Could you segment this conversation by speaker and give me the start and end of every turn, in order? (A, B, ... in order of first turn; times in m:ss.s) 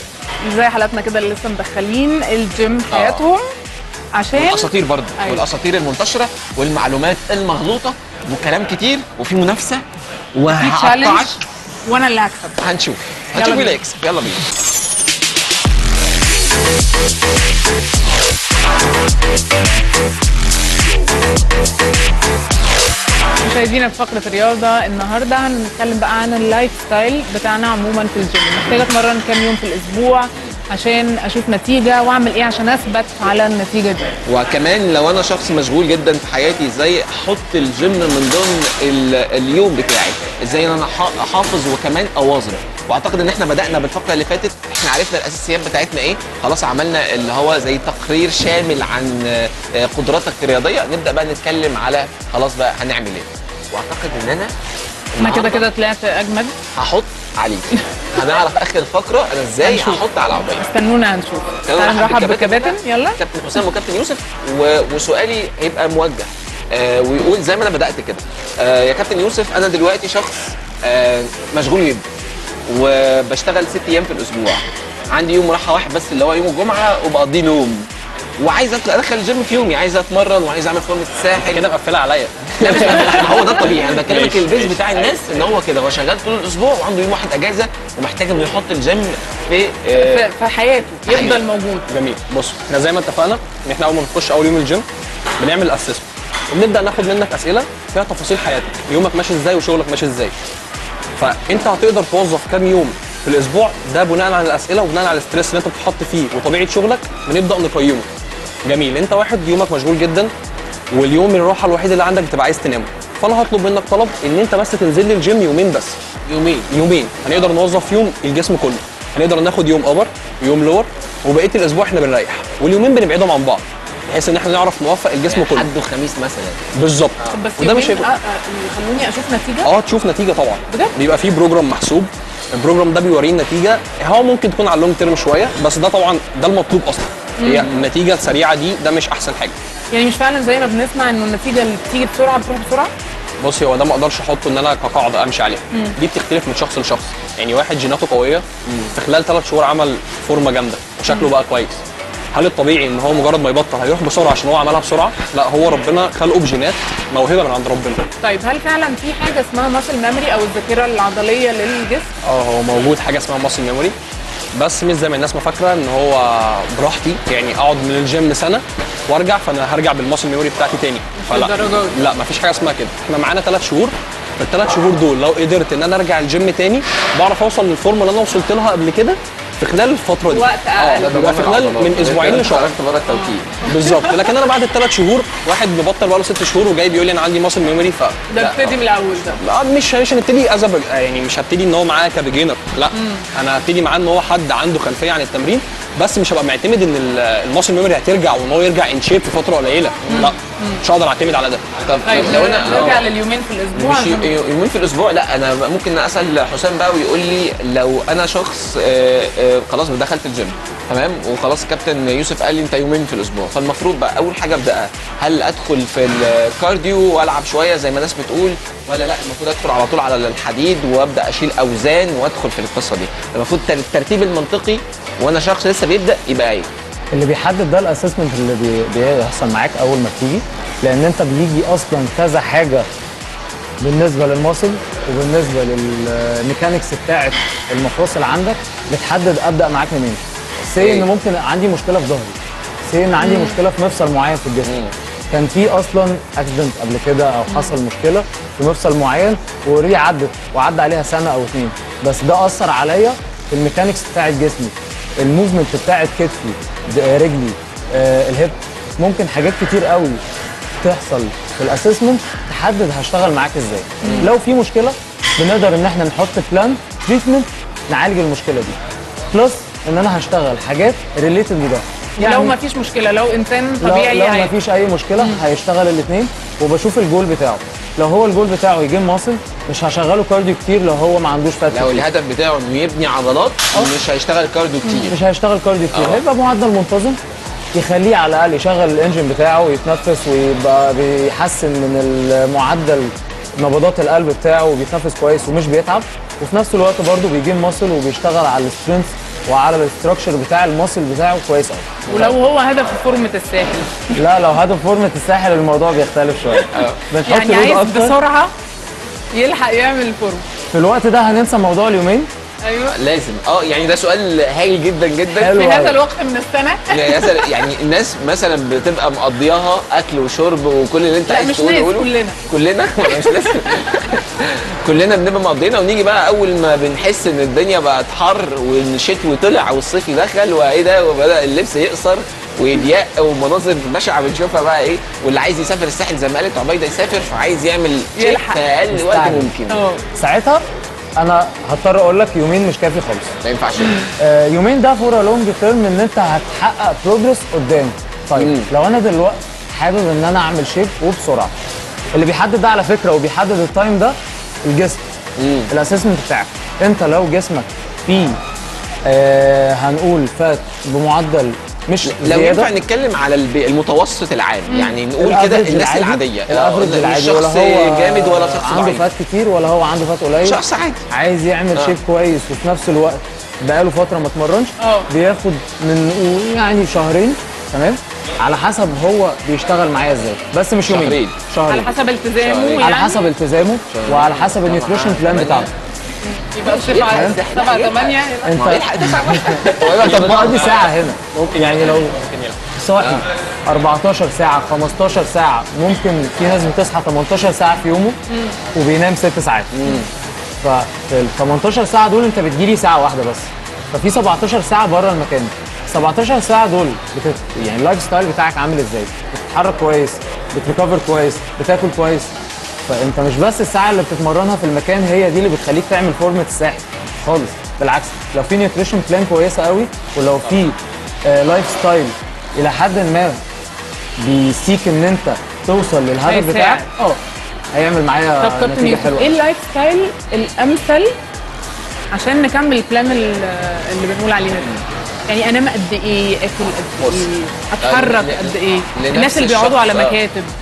0:00.4-0:03.5 A
0:02.9-0:03.2 B
0:04.2-0:05.4 A
0:04.4-0:09.8 B
0:10.4-0:11.4 B
0:10.5-0:12.6 A
0:12.6-0:14.4 B
0:13.3-0:13.8 A
0:23.4-0:34.1 A
0:34.3-0:54.5 B
0:55.1-0:55.6 B
0:55.2-0:56.6 A
0:56.8-1:00.6 B
0:59.6-1:03.2 A
1:01.7-1:12.1 B
1:12.7-1:17.9 B
1:18.4-1:21.7 B
1:21.4-1:25.2 C
1:22.6-1:30.3 B
1:30.0-1:31.9 A
1:31.1-1:31.4 B
1:31.9-1:34.8 C
1:35.4-1:40.3 C
1:41.2-1:48.1 C
1:48.6-1:50.3 C
1:50.9-1:56.0 C
1:56.3-1:56.7 B
1:56.7-2:05.7 C
2:05.3-2:06.6 B
2:06.8-2:08.1 C
2:07.3-2:09.7 A
2:09.6-2:19.5 C
2:17.4-2:17.7 A
2:19.9-2:22.9 A
2:23.4-2:31.8 C
2:28.7-2:28.9 B
2:32.3-2:38.1 C
2:38.2-2:42.1 A
2:42.2-2:44.0 C
2:44.5-3:02.7 C
2:51.2-2:52.0 A
3:00.3-3:01.1 A
3:01.0-3:03.6 B
3:03.1-3:04.2 A
3:03.7-3:08.3 C
3:08.3-3:09.4 A
3:08.4-3:08.7 B
3:09.4-3:21.6 C
3:12.9-3:13.2 A
3:20.0-3:20.3 B
3:20.1-3:20.8 A
3:21.8-3:23.1 B
3:22.0-3:24.3 A
3:22.6-3:23.0 C
3:23.7-3:46.7 B
3:47.1-3:52.9 D
3:53.8-4:04.8 D
4:00.8-4:01.1 B
4:03.2-4:03.6 A
4:04.6-4:04.9 B
4:05.3-4:20.2 D
4:07.5-4:07.8 A
4:20.8-4:28.8 D
4:24.0-4:24.3 A
4:29.3-4:32.6 D
4:32.2-4:34.5 A
4:33.8-4:42.1 D
4:41.7-4:45.2 B
4:45.1-4:47.2 D
4:45.9-4:46.2 B
4:47.7-5:02.0 D
5:02.1-5:04.1 A
5:02.1-5:02.4 B
5:04.2-5:08.2 D
5:06.7-5:07.0 B
5:07.3-5:08.5 A
5:09.3-5:10.4 A
5:10.7-5:12.3 D
5:12.6-5:13.0 A
5:12.9-5:15.5 B
5:15.4-5:16.0 D
5:15.5-5:17.6 A
5:16.9-5:39.8 B
5:21.3-5:22.4 A
5:23.1-5:23.7 A
5:38.2-5:38.6 A
5:38.9-5:39.5 D
5:39.7-5:40.0 A
5:40.2-5:40.6 D
5:41.2-5:43.4 D
5:43.4-5:44.1 B
5:44.2-5:51.5 D
5:48.4-5:48.7 B
5:52.1-5:55.0 D
5:55.4-5:55.7 B
5:55.7-5:58.4 D
5:59.0-6:02.7 D
6:02.0-6:09.1 B
6:04.7-6:05.0 A
6:05.2-6:22.0 D
6:10.4-6:11.0 B
6:14.8-6:15.1 A
6:20.8-6:21.4 B
6:21.7-6:23.2 A
6:22.4-6:22.8 B
6:22.8-6:25.7 D
6:23.9-6:25.7 B
6:26.2-6:28.8 A
6:26.6-6:30.8 B
6:27.1-6:27.4 D
6:28.4-6:32.2 D
6:30.0-6:32.6 C
6:32.8-6:38.2 D
6:33.0-6:33.3 B
6:38.3-6:38.6 A
6:38.7-6:39.8 D
6:39.8-6:40.1 B
6:40.6-6:52.3 D
6:52.9-7:03.4 D
7:04.2-7:07.2 D
7:06.2-7:06.9 A
7:07.7-7:09.4 D
7:08.4-7:11.1 A
7:12.1-7:20.5 A
7:17.0-7:17.3 B
7:17.8-7:20.2 B